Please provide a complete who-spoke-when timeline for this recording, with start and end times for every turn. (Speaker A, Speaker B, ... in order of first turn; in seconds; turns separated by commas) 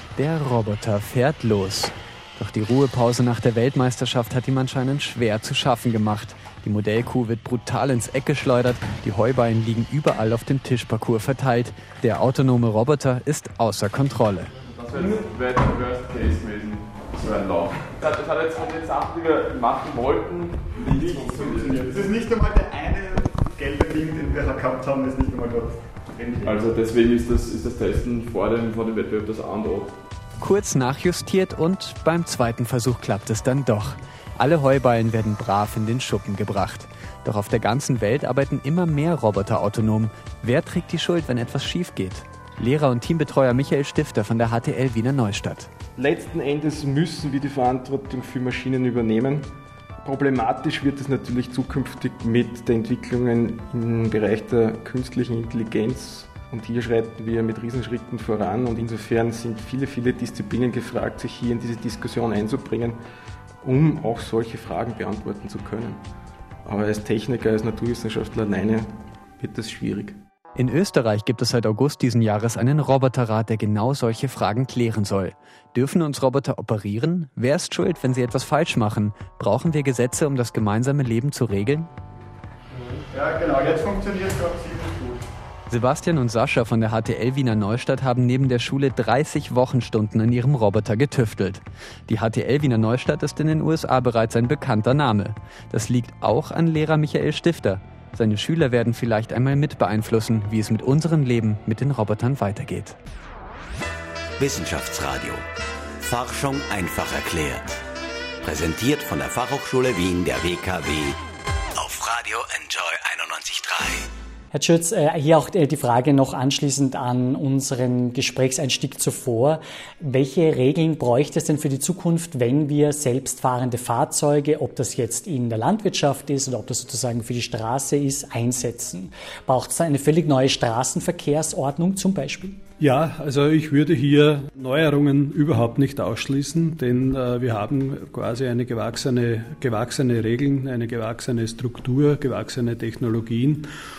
Speaker A: 0.2-14.5, Speaker B: 14.7-22.1, Speaker C: 20.8-26.6, Speaker B: 26.4-29.9, Speaker A: 30.4-45.7, Speaker D: 46.0-49.5, Speaker D: 50.0-63.0, Speaker D: 63.6-66.0, Speaker D: 66.7-70.2, Speaker A: 70.6-81.9, Speaker C: 82.7-85.2, Speaker A: 85.7-103.0, Speaker E: 104.4-105.5, Speaker E: 106.0-107.8, Speaker E: 108.4-111.2, Speaker E: 111.8-114.1, Speaker F: 114.5-132.6, Speaker G: 132.8-143.7